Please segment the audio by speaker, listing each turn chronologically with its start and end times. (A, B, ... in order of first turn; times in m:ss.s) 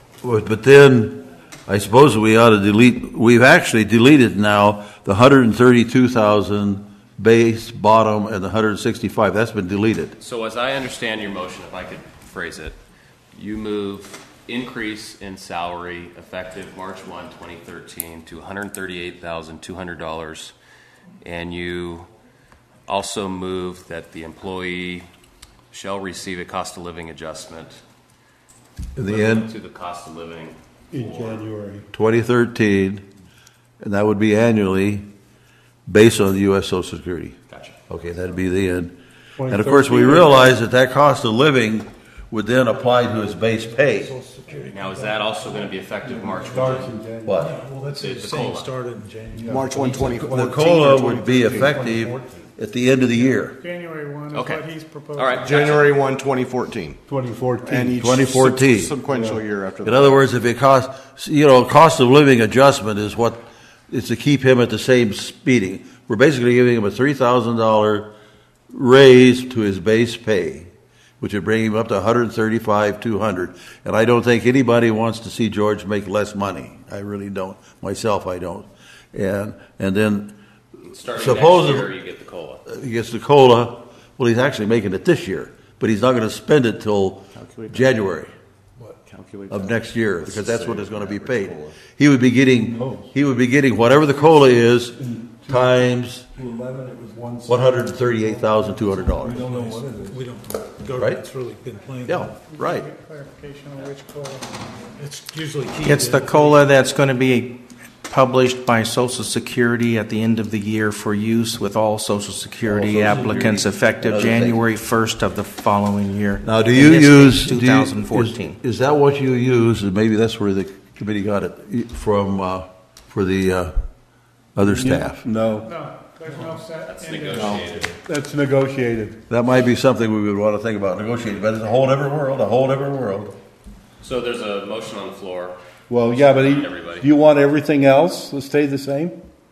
0:00.2-0:10.2 A
0:10.2-0:12.8 B
0:13.4-0:20.5 B
0:21.2-0:22.1 B
0:22.9-0:25.1 B
0:25.7-0:27.8 B
0:29.0-0:29.5 A
0:29.0-0:31.4 B
0:30.9-0:31.9 C
0:31.9-0:33.0 A
0:33.8-0:35.1 A
0:35.9-0:37.4 A
0:37.5-0:37.8 B
0:37.9-0:39.0 A
0:39.4-0:40.6 C
0:39.5-0:44.1 A
0:43.8-0:45.7 D
0:44.7-0:46.9 B
0:46.4-0:47.4 C
0:47.2-0:47.6 A
0:47.4-0:49.5 D
0:48.0-0:48.7 B
0:49.3-0:52.5 C
0:49.5-0:51.7 E
0:50.2-0:53.6 A
0:53.2-0:55.6 F
0:54.3-0:56.0 B
0:55.4-0:57.0 E
0:57.1-0:58.0 C
0:57.6-1:00.3 E
0:58.0-0:59.0 A
0:59.1-0:59.4 C
0:59.8-1:08.1 A
1:08.7-1:20.4 A
1:20.9-1:22.6 B
1:21.1-1:21.9 A
1:22.7-1:28.3 A
1:27.4-1:27.9 E
1:29.0-1:31.8 E
1:29.5-1:36.3 A
1:32.7-1:33.1 C
1:34.9-1:40.2 C
1:37.5-1:39.4 A
1:39.2-1:42.4 D
1:41.0-1:41.2 A
1:42.1-1:42.9 E
1:42.4-1:44.5 F
1:45.0-1:46.7 D
1:45.8-1:58.6 G
1:52.6-1:54.6 A
1:56.4-2:03.8 A
2:04.6-2:05.2 A
2:04.6-2:05.7 C
2:05.6-2:07.7 F
2:06.9-2:08.0 B
2:07.4-2:09.2 C
2:09.3-2:13.4 A
2:14.0-2:15.6 B
2:15.9-2:19.2 C
2:16.2-2:17.1 B